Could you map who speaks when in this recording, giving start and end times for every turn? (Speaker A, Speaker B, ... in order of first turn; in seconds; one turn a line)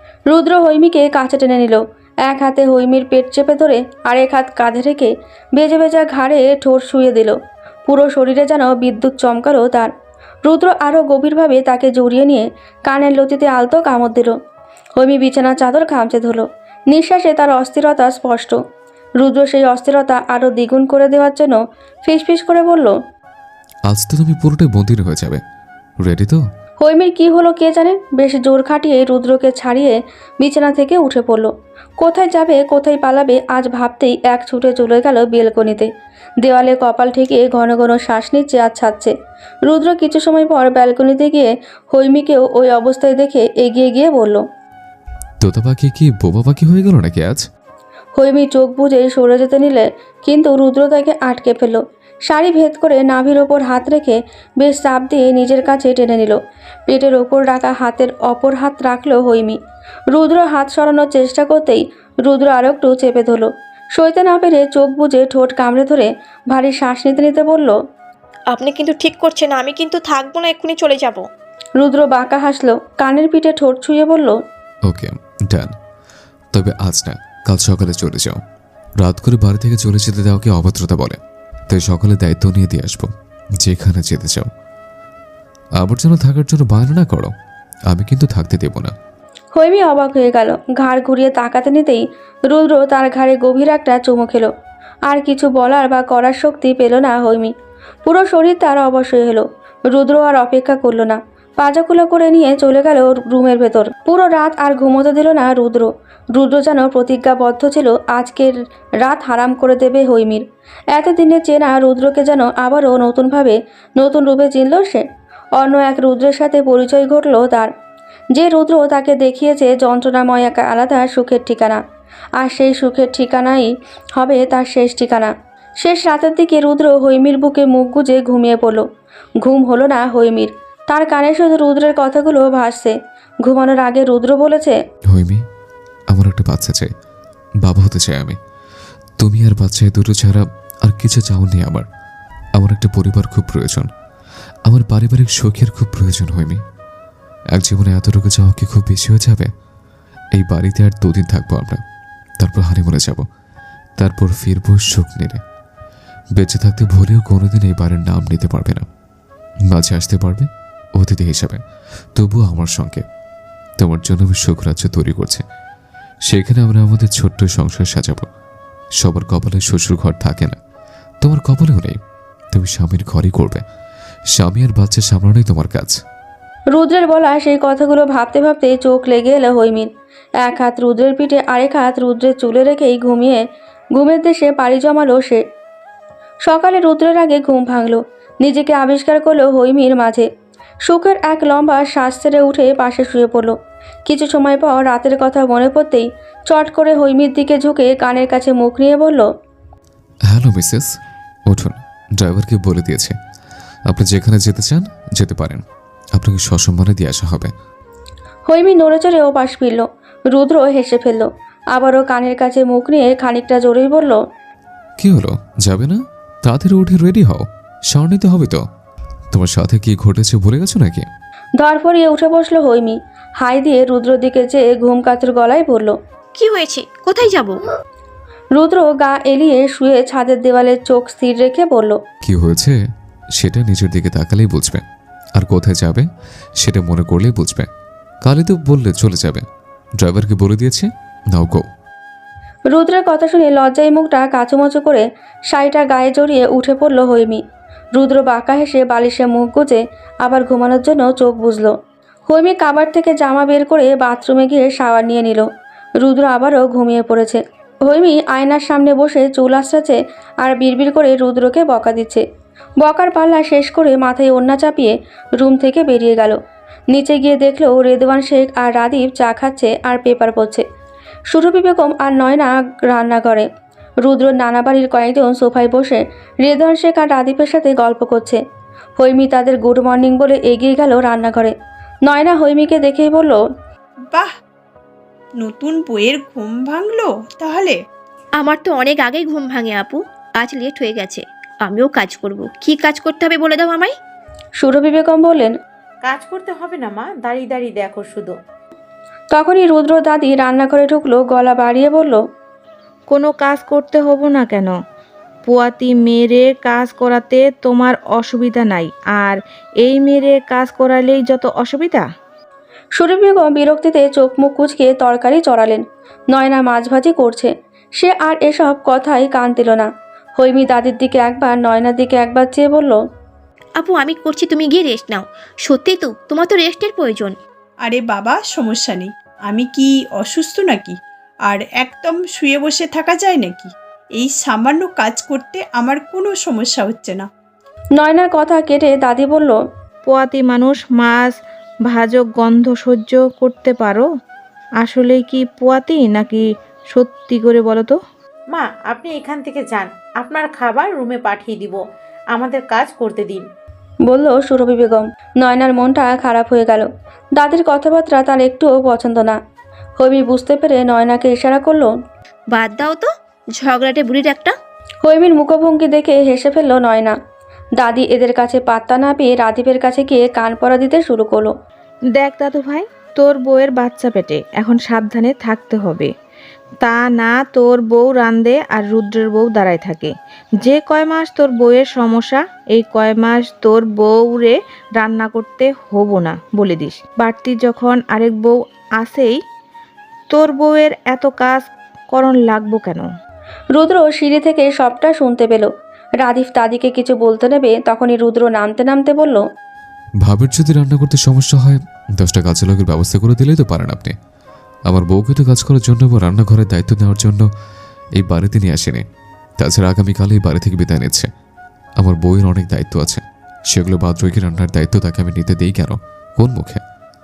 Speaker A: 0.3-7.3
Speaker A: 7.9-9.9
Speaker A: 10.4-14.3
Speaker A: 15.0-18.6
Speaker A: 19.2-22.9
Speaker B: 23.9-25.4
Speaker B: 26.0-26.4
Speaker A: 26.8-35.9
Speaker A: 36.4-39.1
Speaker A: 39.7-44.4
Speaker B: 45.4-47.4
Speaker A: 48.1-59.6
Speaker A: 60.1-67.7
Speaker C: 68.5-71.2
Speaker A: 71.8-74.4
Speaker B: 74.9-75.7
Speaker B: 76.5-78.4
Speaker B: 79.0-81.2
Speaker B: 81.7-84.5
Speaker B: 85.8-87.3
Speaker B: 87.9-88.9
Speaker A: 89.5-94.5
Speaker A: 95.1-97.5
Speaker A: 98.0-115.0
Speaker A: 115.6-117.7
Speaker A: 118.3-121.8
Speaker A: 122.4-128.8
Speaker A: 129.4-132.9
Speaker A: 133.4-134.8
Speaker B: 135.1-135.4
Speaker B: 136.1-136.9
Speaker B: 137.6-138.4
Speaker B: 139.2-141.8
Speaker B: 142.6-143.9
Speaker B: 144.7-146.6
Speaker B: 147.5-149.5
Speaker B: 150.3-151.8
Speaker B: 152.4-153.2
Speaker B: 154.0-155.4
Speaker B: 156.4-158.8
Speaker B: 159.7-161.6
Speaker B: 162.2-163.0
Speaker B: 163.8-165.4
Speaker B: 166.3-168.3
Speaker B: 169.0-170.6
Speaker B: 171.2-172.0
Speaker B: 172.5-173.6
Speaker B: 174.3-176.0
Speaker A: 176.7-179.9
Speaker A: 180.4-183.4
Speaker A: 183.9-185.4
Speaker A: 186.5-190.3
Speaker A: 190.8-193.5
Speaker A: 194.1-199.2
Speaker B: 200.3-200.9
Speaker B: 201.5-203.2
Speaker B: 203.9-205.6
Speaker B: 206.1-207.5
Speaker A: 208.5-214.2
Speaker B: 215.0-218.6
Speaker B: 219.3-221.1
Speaker A: 221.6-225.9
Speaker C: 226.3-227.6
Speaker A: 228.6-232.0
Speaker B: 232.2-232.8
Speaker B: 233.4-234.8
Speaker B: 235.4-236.1
Speaker B: 236.6-237.7
Speaker B: 238.2-239.4
Speaker B: 240.0-241.7
Speaker A: 242.7-247.4
Speaker A: 247.9-251.7
Speaker A: 252.3-255.5
Speaker A: 256.0-262.2
Speaker A: 262.8-266.4
Speaker A: 266.9-270.6
Speaker A: 271.3-273.5
Speaker A: 274.0-278.4
Speaker A: 279.0-281.5
Speaker A: 282.1-283.4
Speaker D: 285.4-287.8
Speaker C: 288.4-293.9
Speaker A: 294.6-295.5
Speaker E: 296.0-298.3
Speaker A: 299.3-302.2
Speaker F: 303.1-304.7
Speaker F: 305.4-312.0
Speaker A: 313.0-323.0
Speaker C: 323.8-327.3
Speaker D: 327.8-337.3
Speaker A: 338.0-339.6
Speaker F: 340.1-341.3
Speaker F: 341.9-344.1
Speaker F: 344.8-347.9
Speaker E: 348.5-351.8
Speaker E: 352.3-353.4
Speaker A: 354.1-359.4
Speaker A: 360.0-361.9
Speaker C: 362.5-364.5
Speaker A: 365.0-367.1
Speaker A: 367.8-371.5
Speaker F: 372.2-376.1
Speaker F: 376.8-389.4
Speaker F: 390.3-393.1
Speaker A: 393.7-395.7
Speaker A: 396.2-399.4
Speaker B: 400.2-404.1
Speaker B: 404.9-407.4
Speaker B: 408.2-409.0
Speaker B: 409.6-411.3
Speaker B: 412.0-416.8